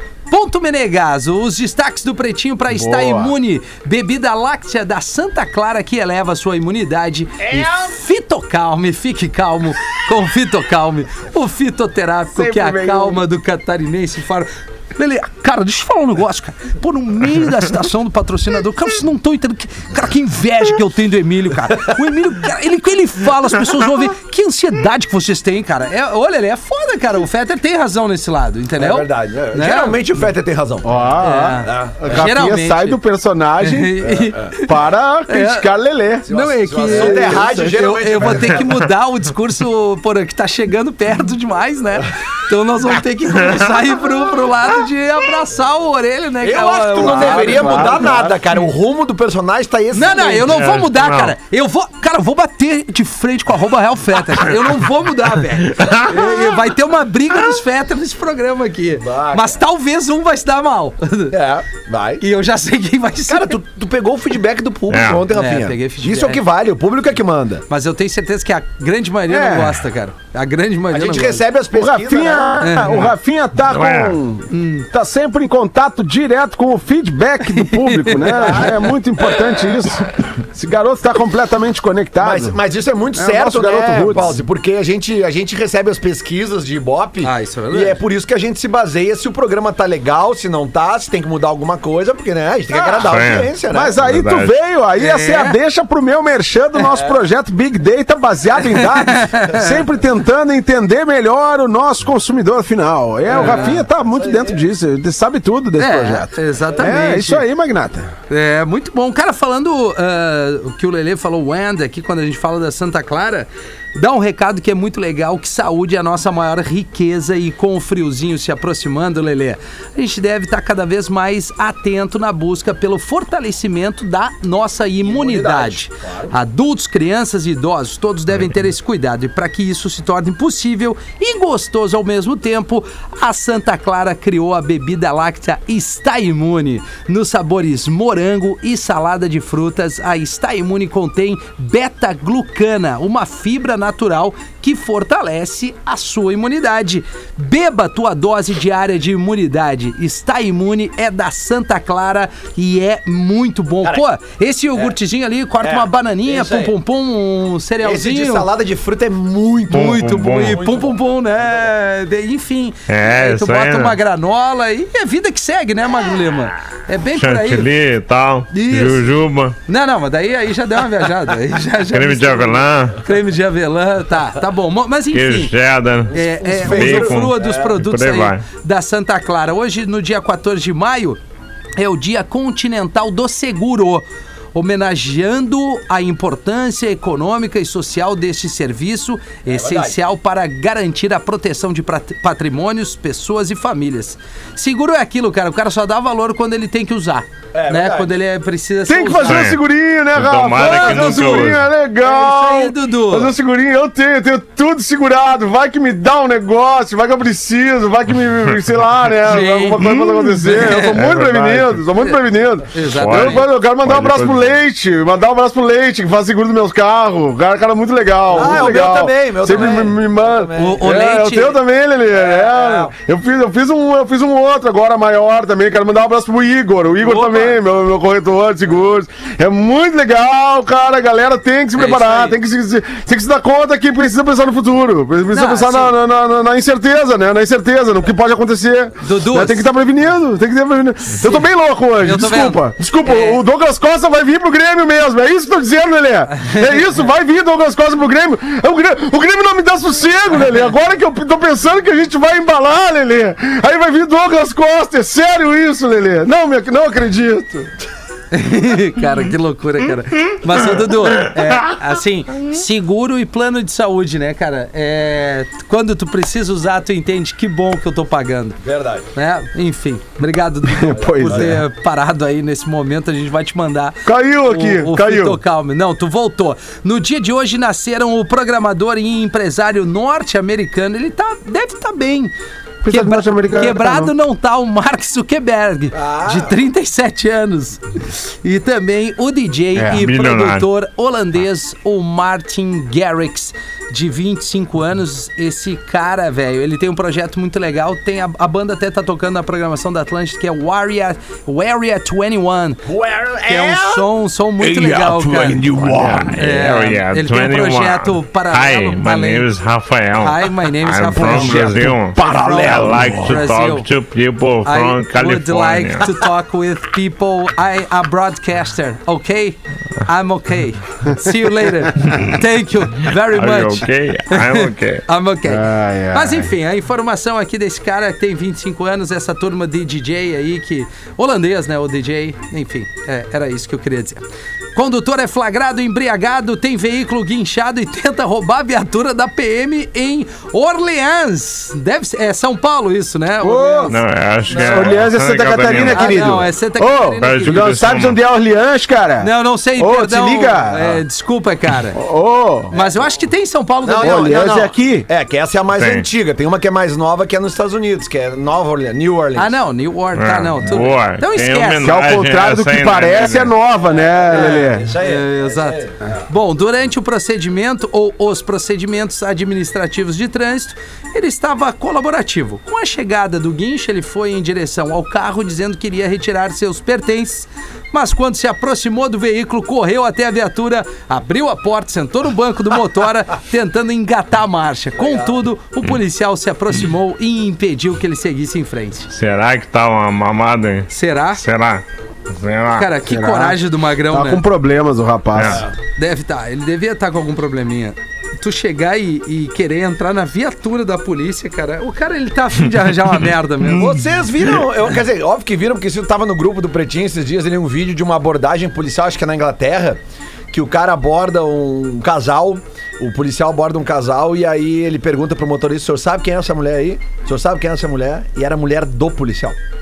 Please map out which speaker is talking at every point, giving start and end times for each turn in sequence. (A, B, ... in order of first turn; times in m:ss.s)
0:00.3-0:30.0 A
0:02.7-0:03.4 B
0:12.4-0:13.2 B
0:28.8-0:31.0 C
0:30.8-0:36.3 B
0:31.2-0:33.0 A
0:31.6-0:32.2 C
0:33.6-0:34.8 A
0:34.0-0:34.5 C
0:35.3-0:35.7 A
0:36.3-0:48.2 A
0:36.3-0:38.7 C
0:36.8-0:37.6 B
0:46.4-0:50.6 C
0:46.9-0:48.5 B
0:49.9-1:01.4 A
0:50.5-0:51.3 D
0:55.6-0:56.3 D
0:59.0-0:59.6 C
1:01.3-1:02.2 C
1:02.2-1:03.6 A
1:03.2-1:07.6 C
1:04.9-1:05.2 D
1:05.3-1:06.4 A
1:07.7-1:11.4 A
1:09.3-1:09.8 B
1:10.9-1:12.6 C
1:11.7-1:22.6 B
1:12.6-1:12.9 A
1:12.8-1:13.1 D
1:13.6-1:14.2 D
1:14.5-1:14.9 A
1:17.5-1:18.9 A
1:18.3-1:18.8 C
1:22.2-1:33.9 C
1:23.1-1:24.4 B
1:27.2-1:28.0 A
1:32.7-1:33.1 B
1:33.0-1:34.5 D
1:33.7-1:48.1 B
1:35.0-1:35.6 A
1:38.7-1:39.8 A
1:43.3-1:44.6 C
1:43.3-1:43.8 A
1:45.8-1:47.4 A
1:46.7-1:47.0 C
1:48.3-2:38.5 A
2:05.0-2:06.3 C
2:35.6-2:36.7 C
2:37.8-2:41.0 C
2:39.7-2:40.6 D
2:39.7-2:47.7 A
2:42.9-2:44.0 D
2:47.1-2:49.6 D
2:48.5-2:49.1 A
2:49.6-2:55.5 A
2:51.9-2:53.0 D
2:55.1-2:58.4 D
2:56.1-3:01.2 A
2:56.1-2:57.7 C
3:01.8-3:19.5 A
3:09.5-3:09.9 C
3:17.5-3:18.1 C
3:18.9-4:17.7 B
3:19.2-3:19.6 D
3:20.1-3:21.7 D
3:20.6-3:23.3 A
3:29.2-3:32.2 A
3:32.7-3:33.4 A
3:32.9-3:34.5 D
3:38.3-3:39.9 A
3:38.3-3:41.0 C
3:40.6-3:41.6 A
3:42.1-3:42.9 C
3:47.0-3:47.6 A
3:51.7-3:52.4 A
3:55.3-3:56.0 A
3:59.0-3:59.6 A
4:02.0-4:03.4 A
4:06.4-4:06.8 A
4:18.3-4:28.6 A
4:28.6-4:29.1 C
4:29.1-4:42.3 A
4:30.6-4:31.6 B
4:31.0-4:31.6 C
4:34.0-4:35.4 B
4:42.8-4:44.1 B
4:42.9-5:02.8 A
4:45.9-4:46.6 C
4:49.7-4:50.0 B
4:49.9-4:50.6 D
5:02.8-5:04.1 C
5:03.4-5:09.5 A
5:04.6-5:06.4 B
5:05.8-5:16.1 D
5:10.2-5:13.8 A
5:11.2-5:13.4 B
5:14.6-5:34.2 A
5:23.3-5:25.0 D
5:25.4-5:26.5 B
5:34.7-5:44.0 A
5:43.4-5:43.9 B
5:43.9-5:46.4 D
5:44.5-5:45.0 C
5:44.5-5:51.0 B
5:45.8-5:47.7 A
5:47.2-5:48.2 D
5:49.2-5:52.0 A
5:51.9-5:52.7 B
5:52.7-5:54.5 A
5:53.8-5:59.6 C
5:54.0-5:55.1 B
5:55.7-5:56.0 D
5:59.3-6:01.9 A
6:00.2-6:03.5 D
6:01.8-6:04.9 B
6:03.9-6:06.2 C
6:04.3-6:29.1 A
6:25.0-6:25.4 C
6:29.1-6:32.9 D
6:30.9-6:31.4 A
6:32.7-6:34.4 A
6:33.0-6:35.6 B
6:35.3-6:35.6 D
6:35.4-6:35.7 C
6:35.9-6:44.0 A
6:43.7-6:50.0 C
6:50.5-6:59.6 C